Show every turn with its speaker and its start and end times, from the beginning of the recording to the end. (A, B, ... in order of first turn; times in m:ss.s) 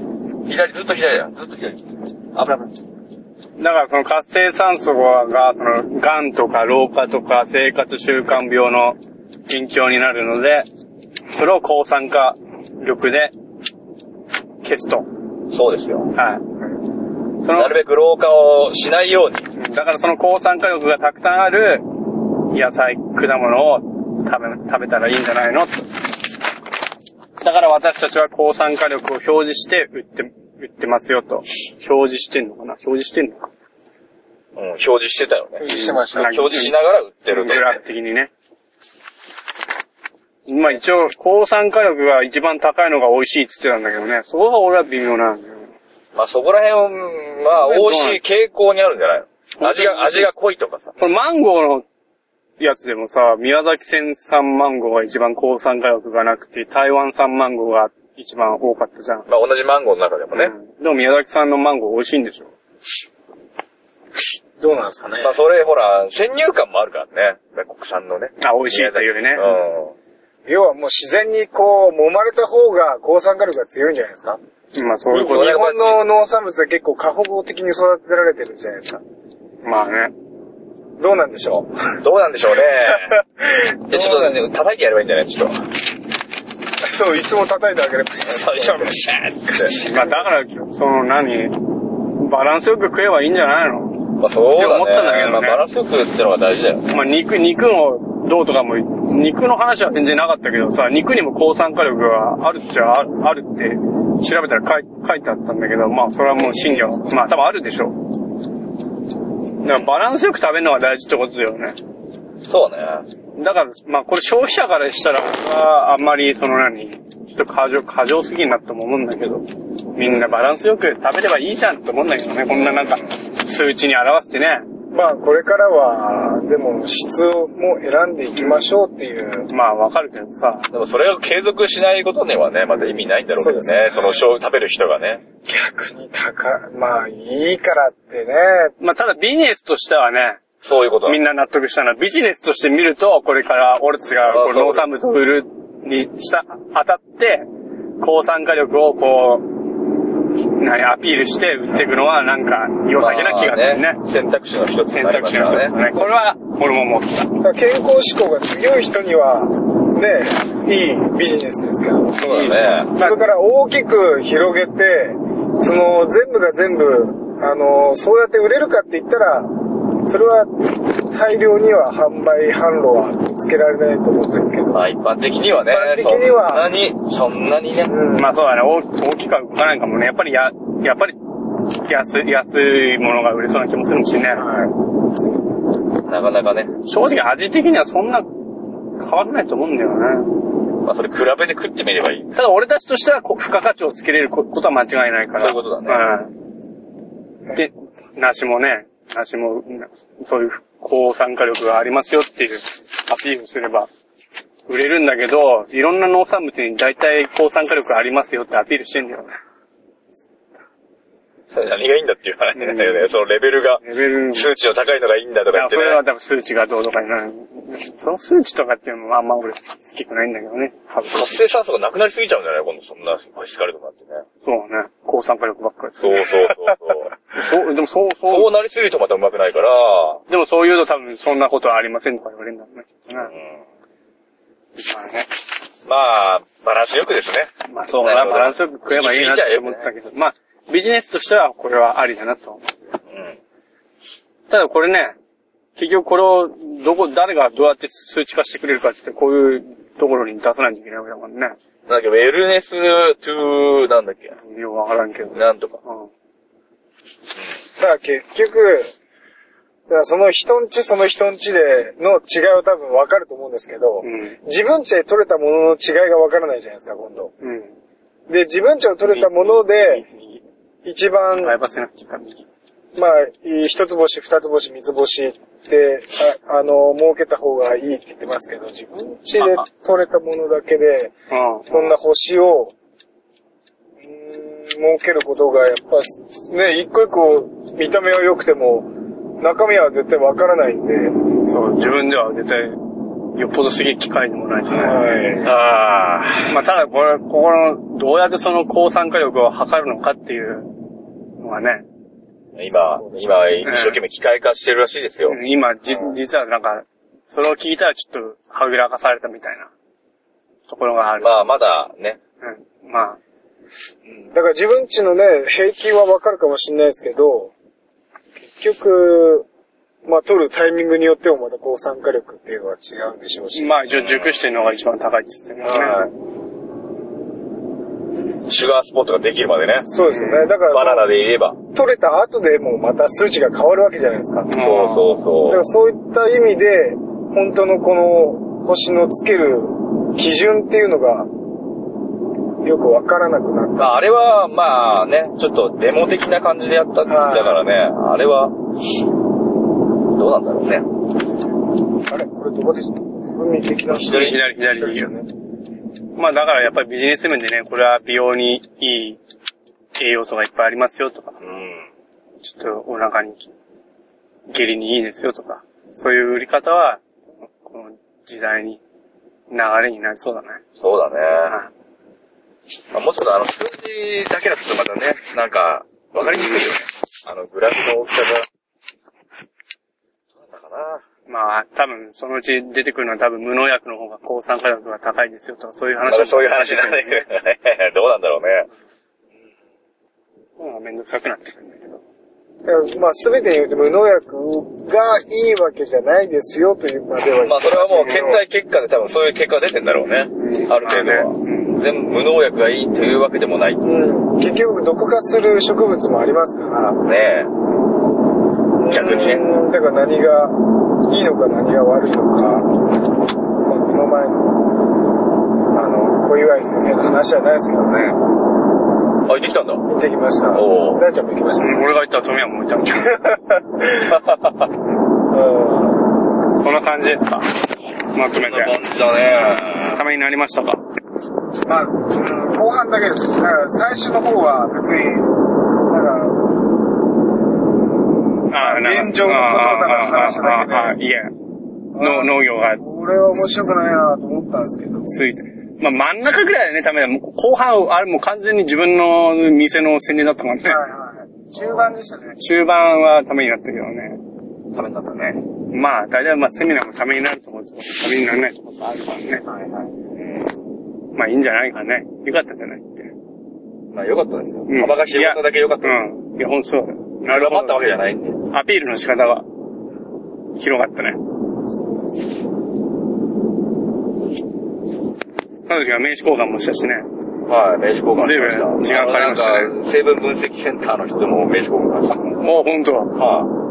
0:00.5-0:01.8 A
0:02.4-0:02.7 A
0:03.6-0:09.0 B
0:09.5-0:10.7 B
0:11.3-0:13.3 B
0:14.6-0:15.1 B
0:15.5-0:16.1 A
0:16.2-0:16.4 B
0:17.4-0:17.8 B
0:17.5-0:19.5 A
0:19.6-0:21.9 B
0:22.5-0:25.9 B
0:27.4-0:33.5 B
0:34.6-0:35.6 A
0:35.6-0:36.4 C
0:35.7-0:36.8 B
0:36.2-0:37.8 A
0:37.3-0:38.3 B
0:40.5-0:45.7 B
0:46.2-0:51.0 A
0:47.5-0:48.2 B
0:49.6-0:50.3 B
0:51.0-0:51.8 B
0:52.6-0:59.3 B
0:59.3-1:00.5 A
1:00.3-1:02.5 B
1:04.6-1:05.3 C
1:05.2-1:10.0 A
1:08.4-1:09.5 B
1:10.5-1:14.4 C
1:14.8-1:15.6 B
1:15.1-1:16.0 A
1:15.2-1:19.0 C
1:19.6-1:20.1 B
1:21.0-1:22.0 C
1:22.0-1:23.2 A
1:22.9-1:24.4 C
1:23.9-1:25.7 A
1:26.8-1:30.4 C
1:28.2-1:29.8 A
1:29.7-1:31.6 B
1:32.1-1:35.6 B
1:34.2-1:37.0 A
1:36.9-1:48.0 B
1:46.4-1:47.2 C
1:49.6-1:51.8 B
1:52.4-1:53.1 A
1:53.4-2:04.7 B
2:02.5-2:03.1 A
2:04.9-2:09.5 C
2:08.4-2:08.7 B
2:09.5-2:10.7 B
2:10.7-2:15.2 A
2:13.3-2:14.2 C
2:15.4-2:18.8 C
2:18.8-2:20.4 B
2:20.6-2:21.2 A
2:21.1-2:27.5 B
2:24.2-2:24.9 A
2:28.0-2:29.5 B
2:30.6-2:34.0 B
2:33.0-2:36.0 A
2:34.9-2:37.3 B
2:37.4-2:42.3 C
2:42.2-2:42.9 A
2:42.2-2:43.2 B
2:43.0-2:54.8 C
2:54.7-2:57.9 A
2:55.7-2:56.7 C
2:57.9-2:58.3 C
2:58.2-3:01.2 B
3:01.8-3:04.5 B
3:04.4-3:04.7 C
3:06.0-3:06.7 A
3:06.9-3:08.3 B
3:09.0-3:10.3 B
3:10.8-3:12.3 A
3:12.3-3:16.3 B
3:15.4-3:16.0 A
3:17.5-3:23.9 B
3:24.7-3:29.4 B
3:31.5-3:36.0 A
3:32.6-3:33.1 B
3:33.8-3:34.5 B
3:35.5-3:41.3 B
3:41.1-3:44.2 A
3:44.4-3:46.4 B
3:46.0-3:47.1 A
3:47.4-3:48.5 B
3:48.3-3:50.2 A
3:50.3-3:53.3 B
3:53.2-3:53.6 A
3:54.8-3:55.3 B
3:55.9-3:59.9 A
3:57.7-4:02.7 B
4:03.1-4:03.4 A
4:04.5-4:05.2 B
4:05.8-4:11.6 B
4:11.9-4:14.4 A
4:14.4-4:16.1 B
4:15.3-4:15.8 A
4:17.8-4:18.9 C
4:19.9-4:27.3 C
4:24.0-4:24.4 B
4:27.4-4:27.7 B
4:28.3-4:30.0 C
4:29.1-4:30.4 B
4:30.8-4:31.5 C
4:31.4-4:32.5 B
4:33.0-4:41.1 C
4:41.3-4:42.0 B
4:41.7-4:42.7 C
4:44.0-4:51.2 C
4:51.4-4:52.8 B
4:53.4-4:55.1 B
4:54.7-4:55.5 C
4:55.4-4:56.6 A
4:56.5-5:00.7 B
5:01.4-5:01.8 B
5:02.6-5:05.4 A
5:02.8-5:03.3 C
5:03.6-5:04.0 B
5:05.3-5:09.7 B
5:10.7-5:11.4 B
5:11.2-5:12.2 A
5:12.4-5:13.2 B
5:14.3-5:17.5 C
5:18.5-5:19.5 C
5:20.1-5:23.8 C
5:23.5-5:26.1 B
5:23.9-5:24.4 A
5:25.7-5:26.0 C
5:28.5-5:29.9 A
5:29.9-5:31.1 C
5:30.1-5:30.5 B
5:30.7-5:31.6 A
5:31.7-5:34.5 C
5:34.5-5:35.2 B
5:34.5-5:35.7 A
5:35.5-5:41.3 C
5:42.6-5:44.0 C
5:43.8-5:48.6 A
5:47.1-5:47.6 C
5:50.1-5:50.9 A
5:52.1-5:55.3 C
5:53.9-5:54.4 A
5:53.9-5:55.1 B
5:56.2-5:59.2 B
6:00.0-6:01.4 B
6:01.4-6:01.9 A
6:02.4-6:03.5 B
6:04.5-6:07.0 B
6:07.6-6:08.8 B
6:09.5-6:10.6 B
6:10.8-6:11.6 A
6:12.9-6:18.5 A
6:20.4-6:21.0 A
6:21.3-6:27.3 B
6:26.1-6:28.7 A
6:30.6-6:32.0 B
6:32.6-6:38.4 C
6:37.4-6:43.9 A
6:38.1-6:38.3 B
6:40.4-6:41.8 B
6:43.8-6:47.0 C
6:47.0-6:47.5 A
6:48.8-6:52.8 C
6:48.9-6:49.5 A
6:53.6-6:54.6 C
6:55.7-6:58.2 C
6:59.3-6:59.9 A
6:59.9-7:01.9 C
7:00.5-7:01.0 A
7:01.6-7:03.3 B
7:03.2-7:04.0 C
7:04.0-7:04.7 A
7:05.3-7:06.1 C
7:06.6-7:07.5 B
7:08.1-7:08.8 B
7:08.4-7:10.0 A
7:09.9-7:10.8 B
7:11.7-7:16.5 C
7:18.5-7:21.3 B
7:18.5-7:21.0 C
7:21.9-7:25.1 C
7:22.0-7:22.8 B
7:25.1-7:30.8 B
7:30.6-7:32.4 C
7:32.4-7:34.2 B
7:34.7-7:35.4 A
7:35.7-7:39.4 B
7:39.5-7:39.9 C
7:40.2-7:40.5 A
7:41.2-7:43.1 B
7:43.9-7:46.0 A
7:44.7-7:47.8 B
7:47.3-7:48.4 A
7:48.5-7:49.4 B
7:50.6-7:51.2 B
7:51.7-7:52.2 C
7:55.7-7:57.1 B
7:57.5-8:02.4 A
7:58.2-7:59.7 B
8:02.4-8:03.2 B
8:03.2-8:03.5 A